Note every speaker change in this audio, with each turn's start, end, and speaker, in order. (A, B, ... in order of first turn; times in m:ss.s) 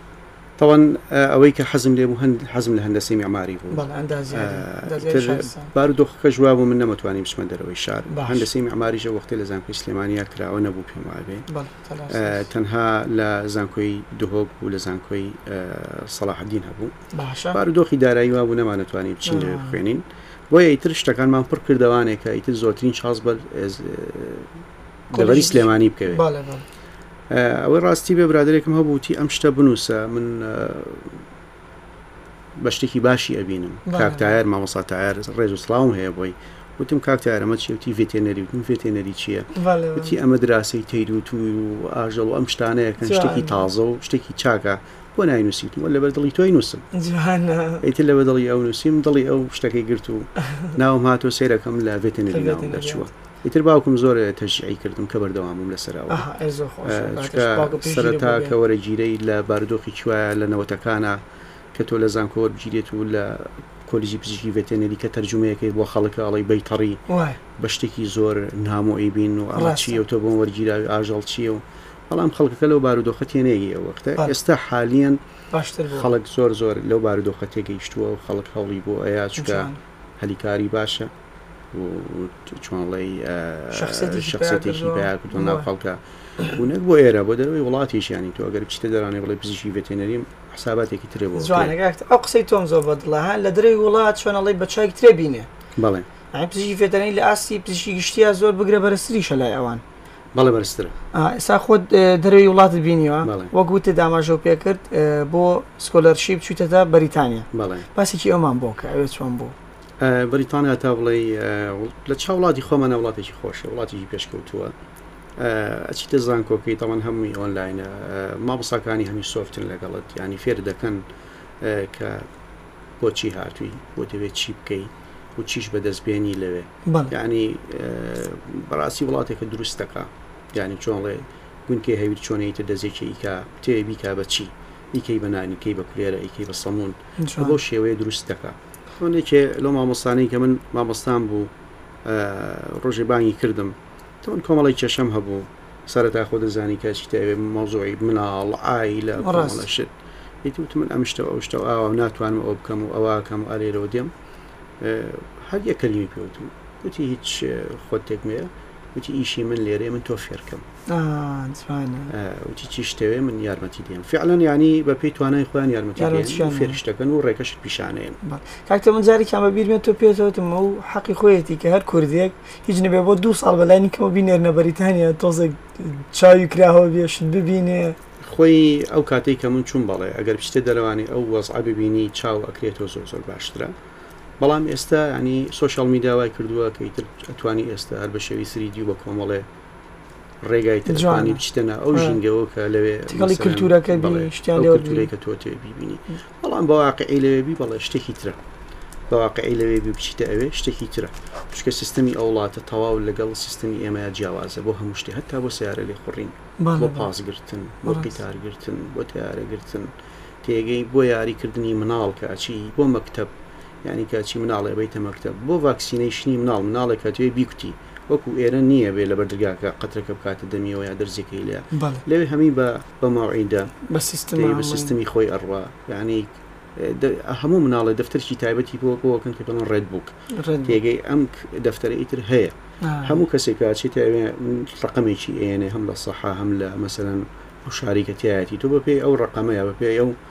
0:00.6-0:11.4 A
0:03.7-0:05.7 B
0:08.1-0:08.5 B
0:11.5-0:12.4 B
0:12.1-0:16.9 A
0:17.1-0:17.6 B
0:17.5-0:24.5 A
0:19.2-0:19.8 B
0:25.1-0:26.2 A
0:25.1-0:26.6 B
0:27.3-0:31.2 A
0:32.6-0:46.8 A
0:33.8-0:34.3 B
0:39.5-0:40.1 B
0:43.0-0:43.6 B
0:46.9-0:47.8 B
0:47.8-0:56.3 A
0:52.3-0:53.0 B
0:56.1-0:58.5 B
0:56.8-1:01.2 A
1:01.7-1:07.0 A
1:07.1-1:07.4 B
1:07.6-1:15.2 A
1:09.5-1:10.0 B
1:15.5-1:16.1 B
1:15.9-1:21.1 A
1:19.4-1:19.8 B
1:21.7-1:31.7 A
1:23.7-1:25.7 B
1:31.3-1:35.5 B
1:35.8-1:36.1 A
1:36.3-1:39.8 B
1:40.3-1:40.9 A
1:41.1-1:49.5 B
1:43.2-1:43.5 A
1:47.5-1:47.9 A
1:50.0-1:54.8 A
1:55.4-2:01.0 A
2:01.6-2:02.3 A
2:03.0-2:21.5 A
2:06.8-2:07.1 B
2:17.2-2:17.6 B
2:22.0-2:29.9 A
2:29.2-2:29.6 B
2:30.4-2:34.1 A
2:34.8-2:40.6 A
2:40.9-2:42.1 B
2:42.1-2:48.2 A
2:46.0-2:46.8 B
2:48.2-2:58.0 B
2:58.2-3:03.7 A
3:04.4-3:09.5 A
3:10.4-3:18.4 A
3:10.9-3:12.2 B
3:13.1-3:15.1 B
3:19.1-3:29.9 A
3:26.6-3:27.1 B
3:30.4-3:33.3 A
3:33.8-3:43.7 A
3:41.7-3:42.0 B
3:43.9-3:44.9 B
3:44.3-3:50.1 A
3:50.3-3:50.8 B
3:50.6-4:00.2 A
3:52.8-3:53.2 B